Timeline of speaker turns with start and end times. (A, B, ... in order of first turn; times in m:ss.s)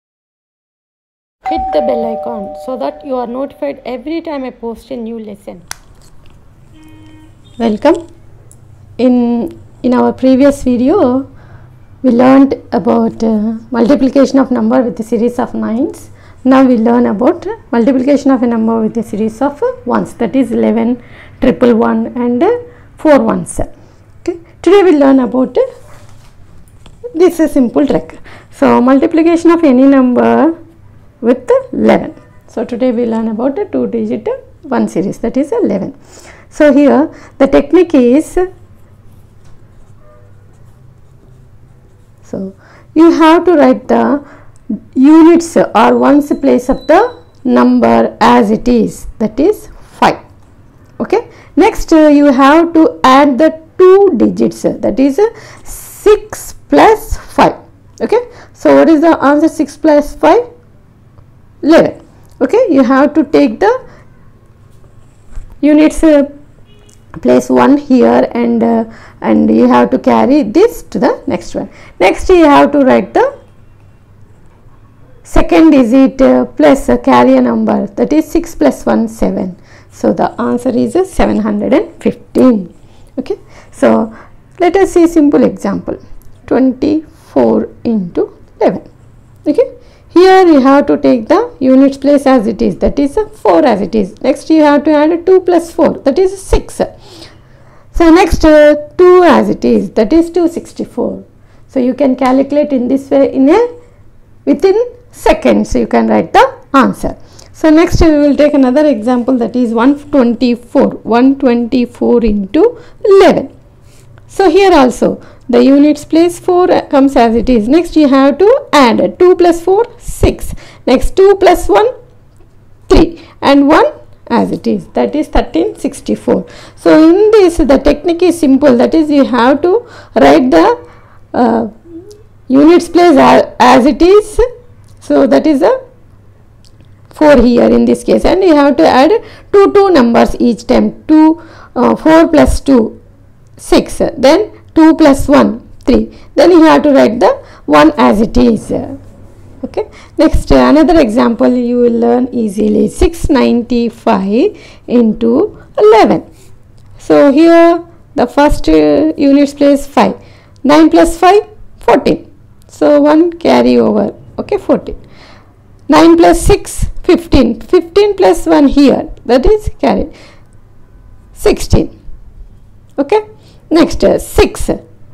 0:01.5-0:05.6 A
0:07.6-0:08.0 A
0:09.0-0:11.3 A
0:12.0-0:23.7 A
0:24.2-0:25.6 A
0:27.2-0:30.6 A
0:31.2-0:36.0 A
0:36.5-0:38.4 A
0:42.2-0:50.2 A
0:51.0-1:00.4 A
1:01.6-1:03.8 A
1:05.6-1:06.3 A
1:07.2-1:13.3 A
1:15.2-1:28.9 A
1:29.5-1:36.9 A
1:37.9-1:43.7 A
1:44.5-1:53.5 A
1:54.3-2:01.9 A
2:02.9-2:10.8 A
2:11.3-2:11.7 A
2:12.5-2:14.4 A
2:15.0-2:15.8 A
2:17.1-2:23.0 A
2:23.6-2:29.0 A
2:29.6-2:36.2 A
2:37.0-2:45.0 A
2:45.9-2:50.1 A
2:51.4-2:51.9 A
2:53.0-2:54.8 A